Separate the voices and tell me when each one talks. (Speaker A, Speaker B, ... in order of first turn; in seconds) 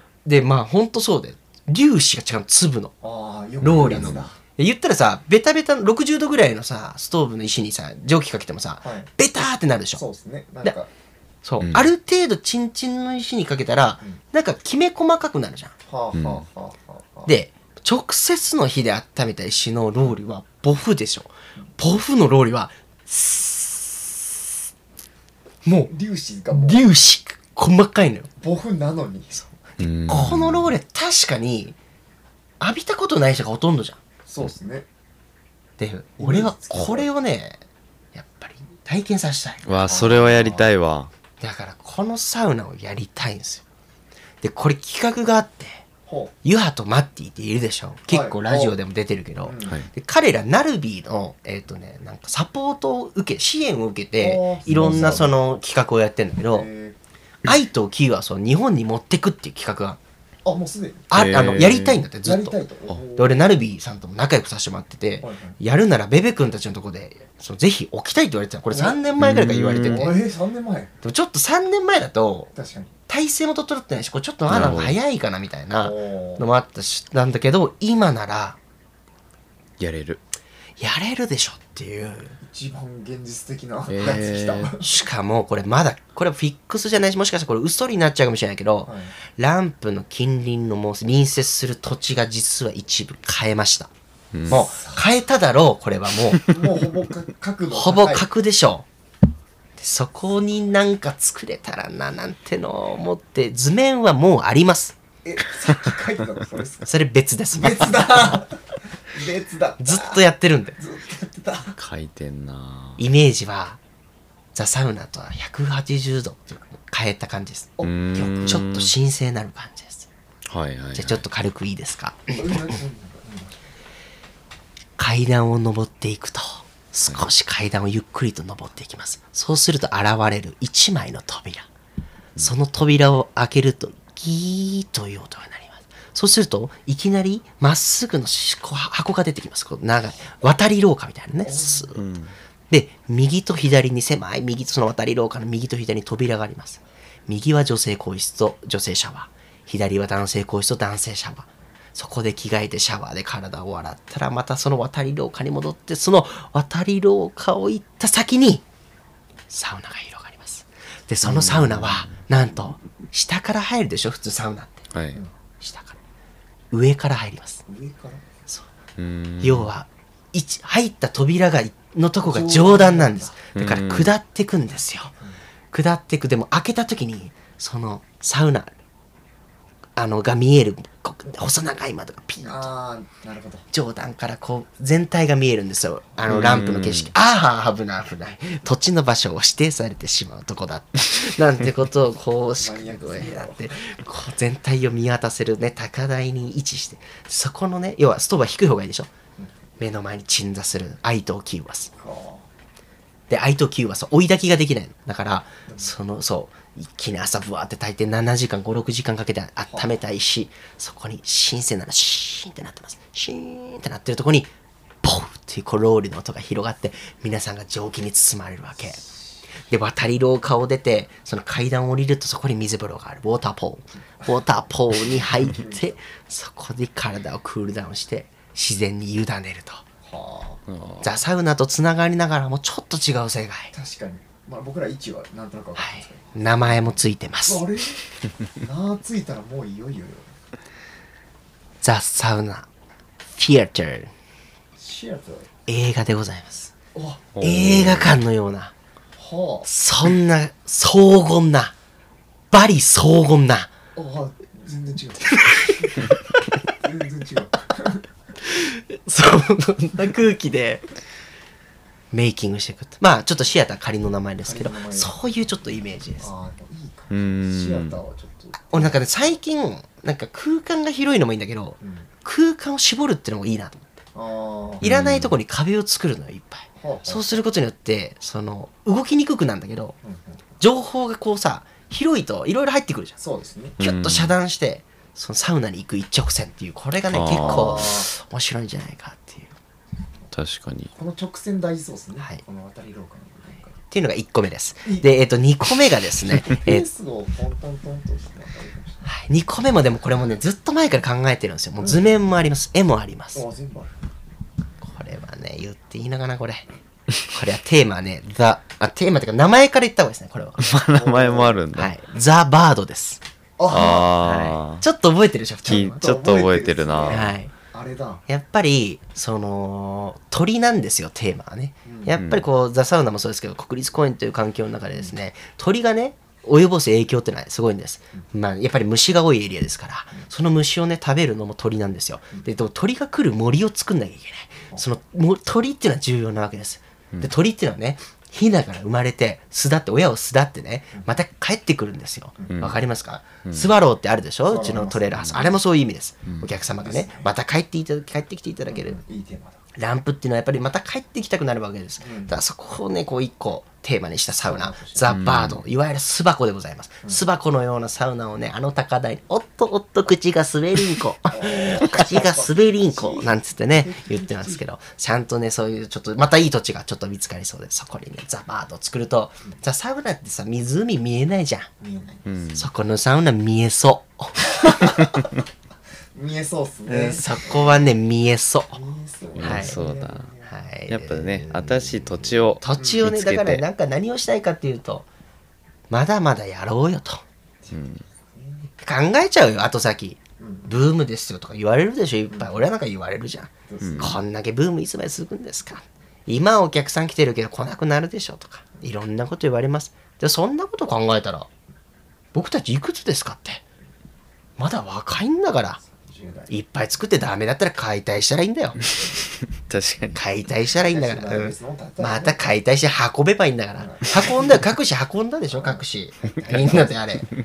Speaker A: 0.2-2.9, 3.6-10.0, 11.4-15.7, 17.2-24.3, 25.6-25.9, 26.5-28.3, 29.4-31.8, 32.6-34.0, 35.8-37.6, 38.1-39.7, 41.4-43.6, 44.4-45.8, 46.4-56.7, 57.4-60.0, 61.1-62.6, 63.1-70.2, 71.0-72.5, 73.1-78.6, 80.8-82.4, 84.8-93.9, 94.5-96.5, 97.7-98.8, 99.8-105.0, 106.8-108.4, 109.8-110.8, 113.0-113.8, 114.5-120.1, 120.9-122.7, 125.0-131.7, 132.4-142.0, 142.7-158.6, 159.5-164.9, 165.6-166.0, 166.7-167.6, 169.4-175.1, 175.7-178.7, 180.0-182.7, 183.7-199.1, 199.8-201.9, 203.3-214.5, 215.0-219.0, 219.7-229.8, 231.0-233.7, 235.8-237.6, 241.8-242.7, 243.4-244.1, 245.7-246.7, 247.4-248.7, 249.7-251.7, 252.5-253.7, 255.3-256.4, 258.4-260.9, 262.1-266.3, 268.7-273.9, 274.8-279.9, 280.6-283.2, 283.8-289.5, 293.9-296.9, 299.0-303.4, 304.8-306.7, 307.2-310.8, 311.7-313.2, 314.2-316.0, 317.1-317.5, 318.3-349.0, 349.8-371.7, 372.6-375.1, 376.9-378.8, 379.4-379.8, 380.4-382.0, 382.5-385.1, 385.9-387.2, 388.8-401.5, 402.3-403.6, 404.6-405.8, 406.5-408.8, 410.1-417.3
Speaker B: 3.0-4.3, 8.8-9.1, 9.9-10.9, 15.9-17.3, 25.9-26.8, 28.4-29.4, 34.3-34.9, 36.2-37.1, 39.8-40.7, 46.1-46.3, 48.1-48.7, 49.4-49.8, 54.2-55.4, 56.5-57.0, 60.4-61.1, 62.2-63.6, 65.2-65.5, 68.7-69.0, 69.8-70.9, 72.5-72.9, 75.8-76.5, 82.4-84.9, 88.8-89.1, 94.5-95.0, 96.5-98.3, 105.2-106.9, 107.5-110.2, 110.8-111.8, 117.8-118.3, 122.3-123.6, 141.4-141.9, 167.7-168.2, 172.2-173.3, 182.4-183.7, 192.6-193.7, 202.0-202.5, 205.7-205.9, 219.0-219.4, 225.2-226.0, 230.0-230.6, 233.7-238.0, 238.6-240.3, 244.8-245.5, 246.9-247.3, 249.2-249.7, 253.9-255.9, 256.8-258.1, 264.4-265.1, 266.2-269.4, 271.8-272.1, 274.1-274.9, 276.8-277.4, 280.0-280.4, 283.2-283.8, 287.3-288.1, 290.9-293.8, 294.8-295.1, 296.4-299.1, 301.8-302.1, 303.3-303.9, 310.9-311.6, 313.6-314.2, 315.6-318.2, 321.8-322.1, 344.4-345.6, 346.8-347.3, 348.7-349.6, 352.0-352.3, 354.4-355.1, 361.3-364.6, 371.8-372.5, 374.6-375.2, 376.1-377.8, 378.7-380.5, 382.8-383.1, 388.3-388.7, 390.4-390.7, 392.3-392.6, 393.7-394.2, 405.8-406.5, 410.8-412.5, 413.8-414.6, 415.5-416.9
Speaker C: 3.6-4.2, 11.6-11.9, 16.1-16.4, 29.8-30.7, 39.6-41.1, 61.1-62.0, 69.2-70.1, 74.5-75.0, 79.8-80.2, 83.9-84.8, 94.3-94.6, 111.8-113.0, 117.8-118.9, 120.5-121.2, 141.9-142.3, 161.2-162.1, 164.9-165.2, 169.0-169.7, 173.5-174.1, 186.3-187.1, 230.7-231.1, 247.3-248.2, 267.1-268.0, 274.8-275.3, 283.8-284.3, 287.1-287.8, 290.3-290.9, 310.6-311.9, 313.7-314.8, 315.6-317.3, 322.1-322.4, 342.5-342.8, 343.4-343.7, 355.1-355.6, 372.2-372.7, 379.4-380.3, 380.9-383.6, 387.7-388.0, 393.8-394.1, 409.6-410.2